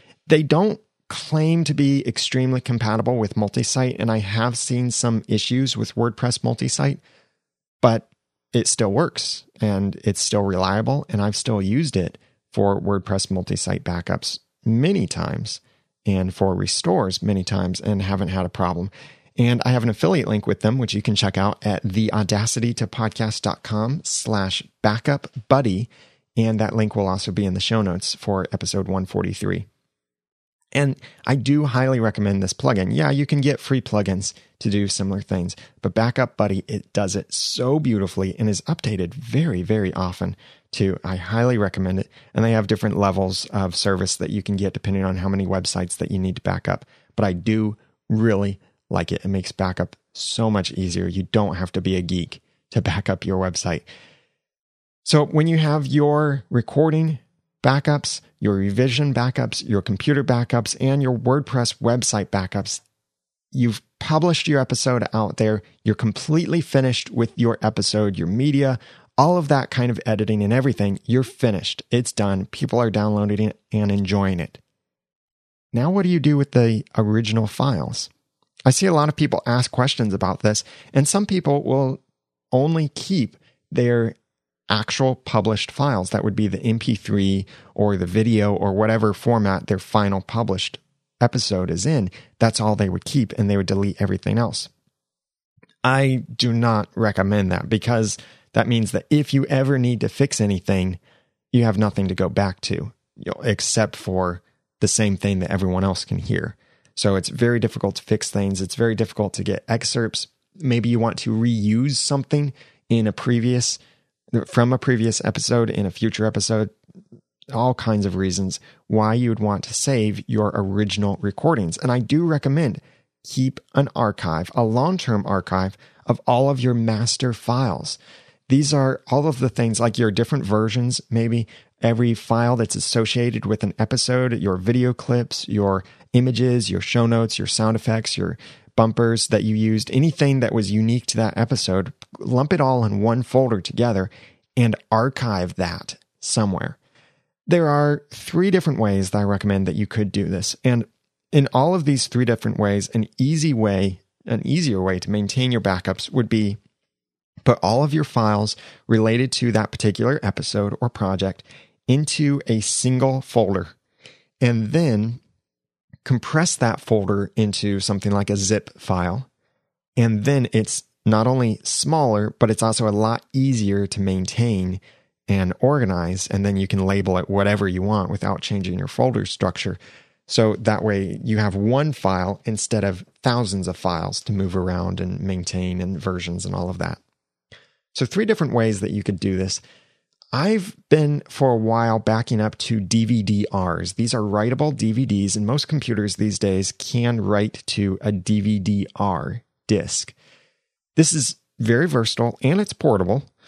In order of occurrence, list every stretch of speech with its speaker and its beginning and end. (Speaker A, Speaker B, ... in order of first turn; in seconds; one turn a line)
Speaker A: 0.3-7.0
Speaker A: 7.8-29.7
Speaker A: 30.7-53.9
Speaker A: 55.0-62.8
Speaker A: 63.5-74.6
Speaker A: 75.7-78.1
Speaker A: 78.7-82.0
Speaker A: 82.5-84.2
Speaker A: 84.7-94.7
Speaker A: 95.8-101.0
Speaker A: 101.5-113.8
Speaker A: 114.3-116.7
Speaker A: 117.5-146.8
Speaker A: 147.5-156.6
Speaker A: 157.4-163.7
Speaker A: 164.4-165.2
Speaker A: 166.1-169.3
Speaker A: 170.0-187.0
Speaker A: 187.9-189.6
Speaker A: 190.3-200.2
Speaker A: 201.0-203.3